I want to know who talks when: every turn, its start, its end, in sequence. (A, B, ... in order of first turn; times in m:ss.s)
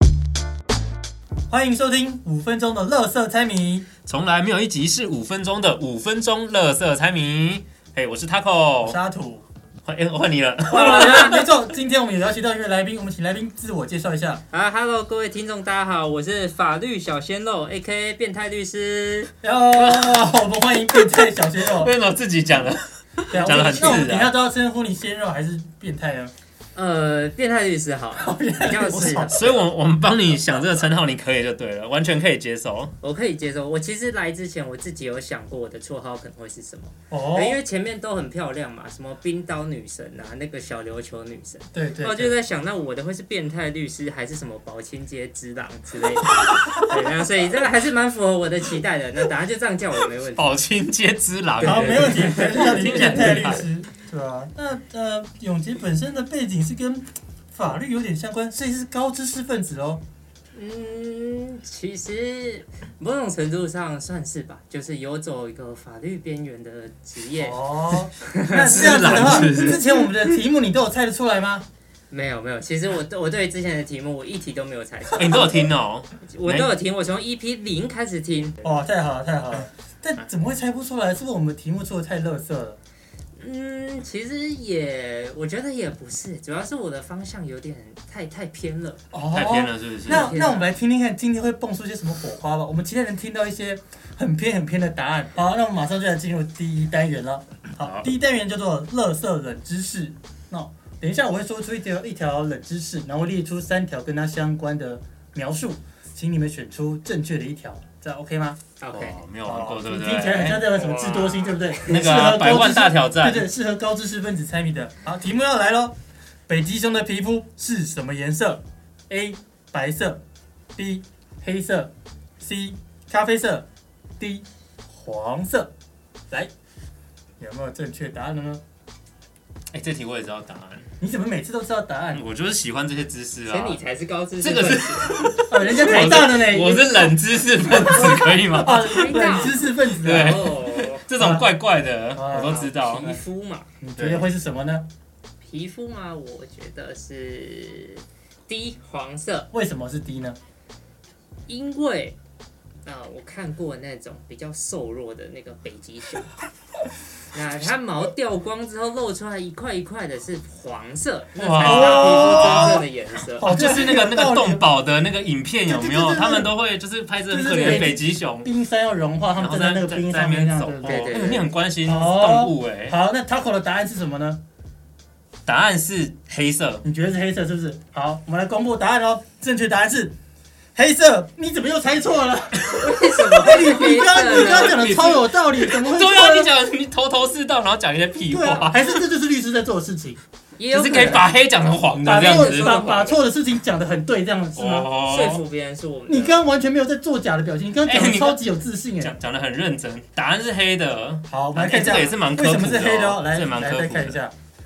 0:01.5-0:03.9 A
0:04.1-0:09.0 B
0:08.8-0:09.4 A
0:09.8-0:11.5 B
0:10.7-0:14.4 A
0:10.7-0:11.3 C
0:14.5-0:19.3 C
0:19.4-0:21.9 A
0:19.7-0:24.4 B
0:23.3-0:26.3 A
0:26.7-0:29.6 C
0:28.2-0:29.6 A
0:28.9-0:32.9 B
0:33.0-0:50.6 C
0:37.1-0:37.6 A
0:41.7-0:42.4 A
0:46.3-0:47.1 B
0:50.3-0:53.7 B
0:51.6-0:53.3 C
0:51.6-1:00.0 A
1:00.5-1:09.4 C
1:07.4-1:11.6 A
1:08.6-1:10.4 B
1:12.1-1:15.7 C
1:15.1-1:16.7 B
1:16.2-1:18.6 C
1:18.6-1:22.8 A
1:23.4-1:29.0 C
1:29.1-1:48.6 A
1:29.3-1:30.4 B
1:30.1-1:30.7 C
1:37.8-1:38.1 B
1:48.8-1:49.2 C
1:48.9-1:50.7 B
1:49.4-1:55.9 A
1:50.7-1:51.8 C
1:51.8-1:53.5 B
1:56.5-2:00.2 A
2:00.8-2:03.6 A
2:04.2-2:05.7 A
2:07.4-2:08.6 A
2:09.7-2:10.9 B
2:11.0-2:12.2 A
2:12.1-2:13.8 B
2:13.5-2:15.2 C
2:14.4-2:23.1 B
2:15.5-2:17.1 A
2:17.8-2:20.5 A
2:18.8-2:21.0 C
2:21.2-2:21.5 A
2:22.2-2:22.6 A
2:22.5-2:23.7 C
2:23.8-2:24.8 A
2:24.0-2:24.3 B
2:25.4-2:29.5 C
2:29.5-2:30.4 A
2:31.5-2:32.2 C
2:32.8-2:36.3 C
2:37.3-2:43.5 C
2:41.4-2:42.8 B
2:41.6-2:42.8 A
2:43.4-2:44.7 A
2:43.4-2:48.5 B
2:45.7-2:46.5 A
2:47.3-2:51.2 A
2:49.4-2:53.0 B
2:50.8-2:51.5 C
2:51.8-2:54.4 A
2:55.5-2:56.8 B
2:56.8-3:00.1 A
3:00.8-3:06.5 A
3:02.7-3:05.1 C
3:04.2-3:09.0 B
3:08.3-3:10.2 A
3:10.6-3:11.3 C
3:10.7-3:12.9 B
3:12.0-3:14.9 A
3:12.1-3:13.2 C
3:14.6-3:15.4 B
3:15.1-3:16.4 C
3:16.1-3:19.1 A
3:17.9-3:18.5 B
3:19.0-3:24.2 B
3:21.3-3:24.3 A